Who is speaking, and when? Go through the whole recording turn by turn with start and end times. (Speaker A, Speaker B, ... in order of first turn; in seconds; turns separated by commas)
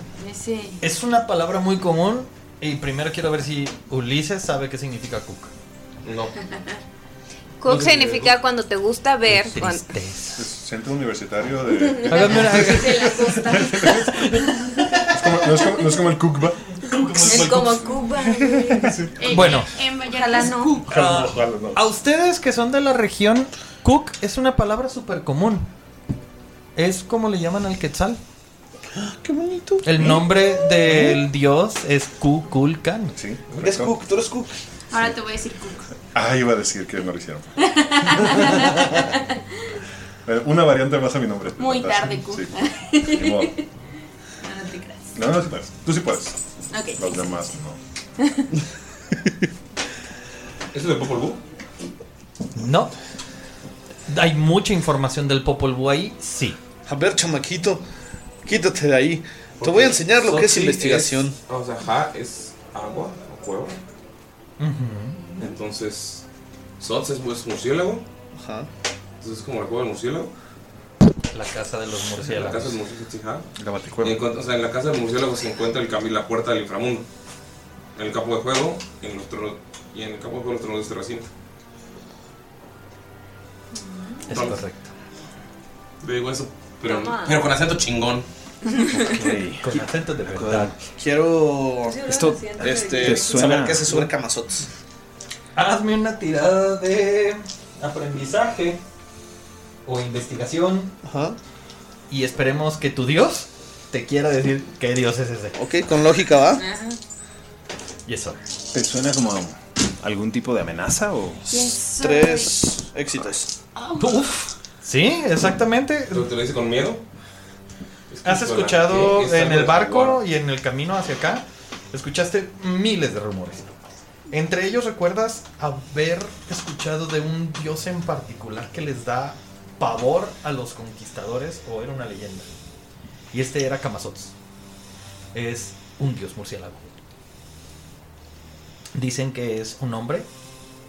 Speaker A: 0.2-0.8, Speaker B: 0.8-5.5, Speaker C: 6.0-6.3, Speaker D: 7.6-9.8, Speaker C: 7.6-8.3, Speaker B: 9.3-10.4, Speaker E: 10.3-14.2, Speaker B: 12.1-13.1, Speaker A: 12.4-14.0, Speaker B: 14.0-15.0, Speaker E: 15.0-16.6, Speaker B: 16.8-17.9, Speaker D: 17.2-18.9, Speaker E: 18.2-19.2, Speaker A: 19.2-20.8, Speaker B: 19.3-19.7, Speaker D: 20.1-20.8, Speaker E: 20.9-21.8, Speaker B: 20.9-25.7, Speaker B: 26.8-28.2, Speaker F: 28.9-31.0, Speaker B: 29.8-33.1, Speaker E: 33.1-33.9, Speaker F: 33.6-34.5, Speaker A: 34.9-35.9, Speaker E: 36.1-37.5, Speaker A: 37.6-39.0, Speaker E: 40.2-43.5, Speaker A: 41.6-43.5, Speaker A: 44.4-45.2, Speaker E: 45.1-46.4, Speaker A: 46.7-47.2, Speaker E: 47.0-47.8, Speaker C: 50.7-51.4, Speaker B: 52.5-52.9, Speaker B: 54.1-56.6, Speaker F: 56.9-57.8, Speaker F: 58.4-61.4, Speaker C: 59.6-63.8, Speaker B: 64.6-65.3, Speaker C: 65.4-66.2, Speaker C: 66.8-68.0, Speaker F: 68.3-68.7, Speaker C: 69.2-70.3, Speaker B: 71.3-72.8, Speaker C: 72.2-73.5, Speaker E: 73.6-74.2, Speaker C: 74.0-77.1, Speaker C: 78.0-81.3, Speaker D: 83.8-84.1, Speaker B: 84.3-84.9, Speaker C: 84.3-84.6, Speaker C: 86.0-88.3, Speaker D: 86.8-87.5, Speaker D: 88.7-89.1, Speaker G: 88.9-90.7, Speaker B: 89.6-90.7, Speaker F: 91.0-92.0, Speaker D: 91.9-93.6, Speaker G: 92.0-94.1, Speaker F: 92.6-94.7, Speaker B: 95.5-98.8, Speaker B: 99.8-100.9, Speaker F: 101.0-101.4, Speaker B: 102.1-105.5, Speaker F: 105.5-106.6, Speaker D: 106.6-107.0, Speaker B: 108.1-108.4, Speaker G: 108.7-111.5, Speaker A: 111.5-112.6, Speaker F: 111.5-113.5, Speaker A: 113.8-114.1, Speaker B: 114.0-116.3, Speaker C: 116.1-117.0, Speaker C: 118.1-120.2, Speaker B: 118.2-123.7, Speaker B: 124.3-132.5, Speaker B: 133.3-134.3, Speaker B: 135.3-136.9, Speaker B: 138.9-140.3